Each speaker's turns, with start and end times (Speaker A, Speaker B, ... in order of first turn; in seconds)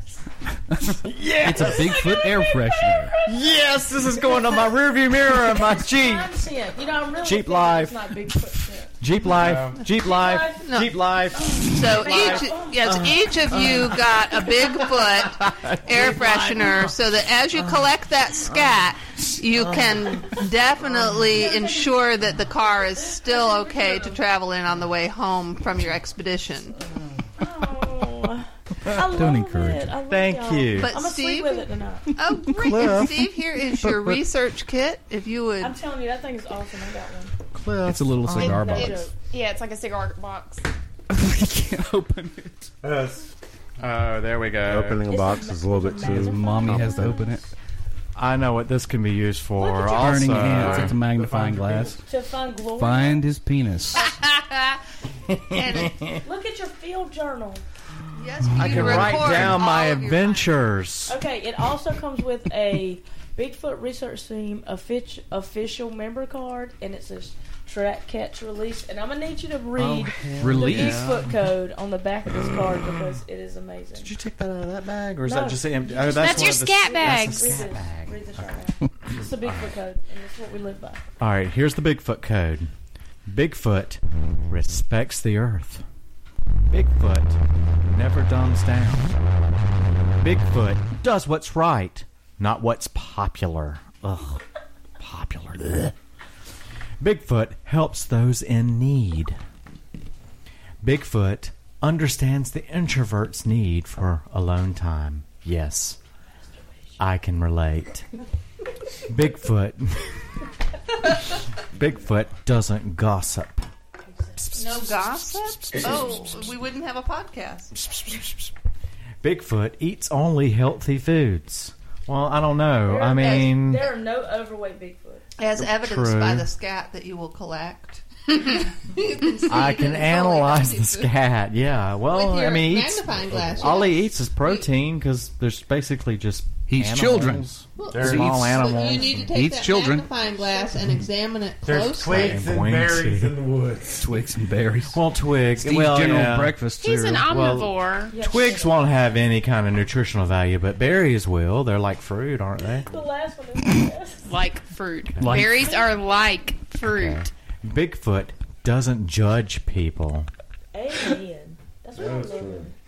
Speaker A: 0.7-3.1, 28.9-29.9, 32.7-33.1, 33.8-34.1, 37.9-39.0, 41.1-42.7, 46.0-47.4, 49.9-52.0, 52.8-54.1, 58.5-59.1, 70.4-71.1, 136.7-140.1, 144.0-145.0, 145.6-147.3, 155.2-155.7
Speaker B: 1.0-2.1, 3.2-6.3, 7.2-16.9, 17.6-17.9, 18.4-18.8, 19.5-20.4, 30.1-30.9, 32.6-33.2, 37.5-38.9, 43.8-45.0, 48.2-51.0, 55.3-56.2, 58.5-61.2, 69.8-71.3, 72.5-73.2, 74.0-78.5, 79.1-79.7, 81.2-82.7, 83.3-85.8, 86.7-89.3, 90.2-94.4, 95.0-96.0, 97.0-99.4, 100.8-106.0, 107.0-108.1, 109.1-110.2, 111.7-113.7, 114.4-116.5, 117.7-118.5, 119.2-123.9, 125.6-126.5, 129.5-139.3, 142.0-143.4, 144.9-146.6, 147.2-152.9, 156.8-160.3
Speaker C: 1.5-3.3, 4.3-4.6, 5.4-8.9, 10.0-10.7, 11.3-12.8, 21.3-21.9, 22.9-24.2, 27.4-32.1, 35.6-37.3, 38.4-39.1, 45.1-47.4, 49.6-50.3, 52.0-53.2, 56.2-57.6, 61.1-74.1, 75.2-81.0, 114.1-114.5, 122.9-125.2, 148.1-148.8, 152.9-154.3, 155.7-156.0, 160.7-162.7
Speaker D: 9.3-9.8, 42.8-43.3, 44.6-46.9, 50.4-52.0, 137.9-138.5, 141.6-144.1, 162.0-162.7
Speaker E: 10.6-11.0, 11.5-26.8, 30.7-35.8, 53.9-54.8, 55.5-56.0, 58.1-60.6, 114.5-117.7, 123.2-123.5, 125.4-131.1, 132.1-134.5, 137.8-142.4
Speaker F: 38.4-40.7, 76.1-77.6, 146.8-148.1, 154.3-157.3